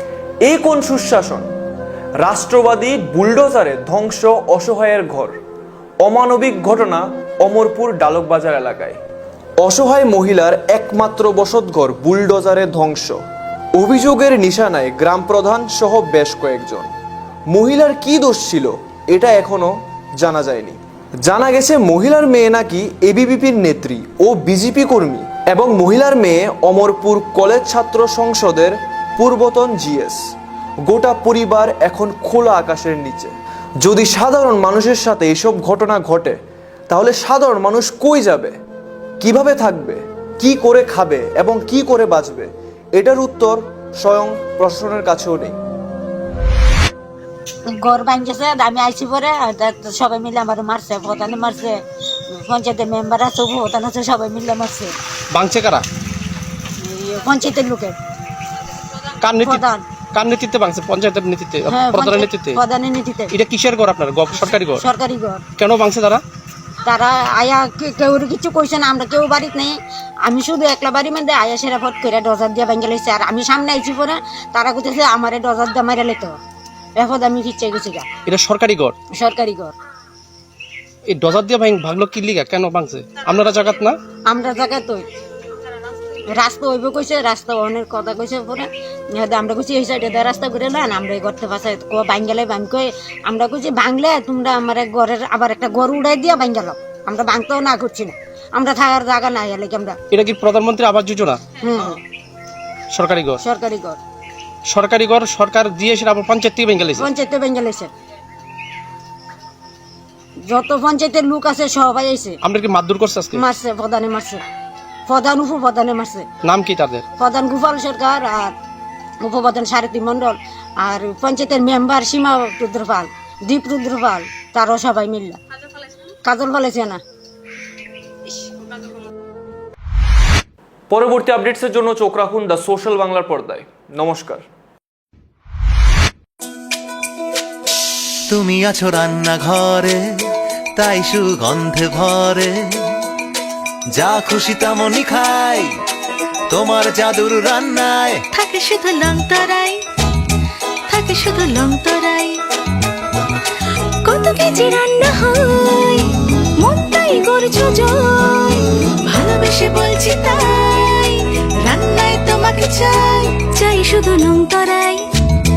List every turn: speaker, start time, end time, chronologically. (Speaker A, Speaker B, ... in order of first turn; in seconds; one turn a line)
Speaker A: 0.5-1.5
Speaker A: 2.2-5.4
Speaker A: 6.0-9.0
Speaker A: 9.6-13.2
Speaker A: 13.8-16.9
Speaker A: 17.5-30.3
Speaker A: 30.9-38.6
Speaker A: 39.2-45.6
Speaker B: 47.7-51.8
Speaker B: 52.3-55.0
Speaker C: 55.4-55.9
Speaker B: 56.8-58.0
Speaker C: 59.2-59.6
Speaker B: 59.4-59.8
Speaker C: 60.1-62.6
Speaker B: 61.7-63.3
Speaker C: 63.3-64.8
Speaker B: 64.4-65.4
Speaker C: 65.6-66.2
Speaker B: 66.8-76.4
Speaker B: 77.0-78.1
Speaker C: 78.3-79.0
Speaker B: 79.1-79.8
Speaker C: 81.1-84.0
Speaker B: 84.3-85.1
Speaker B: 86.3-100.0
Speaker C: 100.1-101.4
Speaker B: 101.6-102.0
Speaker C: 102.9-103.4
Speaker B: 103.4-104.0
Speaker C: 104.7-107.1
Speaker B: 106.9-107.9
Speaker B: 110.5-112.4
Speaker C: 112.4-113.5
Speaker B: 113.3-114.4
Speaker B: 115.1-116.3
Speaker C: 116.4-117.0
Speaker B: 117.2-118.5
Speaker B: 119.2-125.4
Speaker B: 126.2-127.0
Speaker A: 130.9-134.4
Speaker D: 138.3-140.0
Speaker D: 140.8-142.9
Speaker D: 143.9-145.7
Speaker D: 146.5-148.2
Speaker E: 148.3-149.8
Speaker E: 150.9-152.3
Speaker E: 154.1-156.1
Speaker E: 156.6-165.0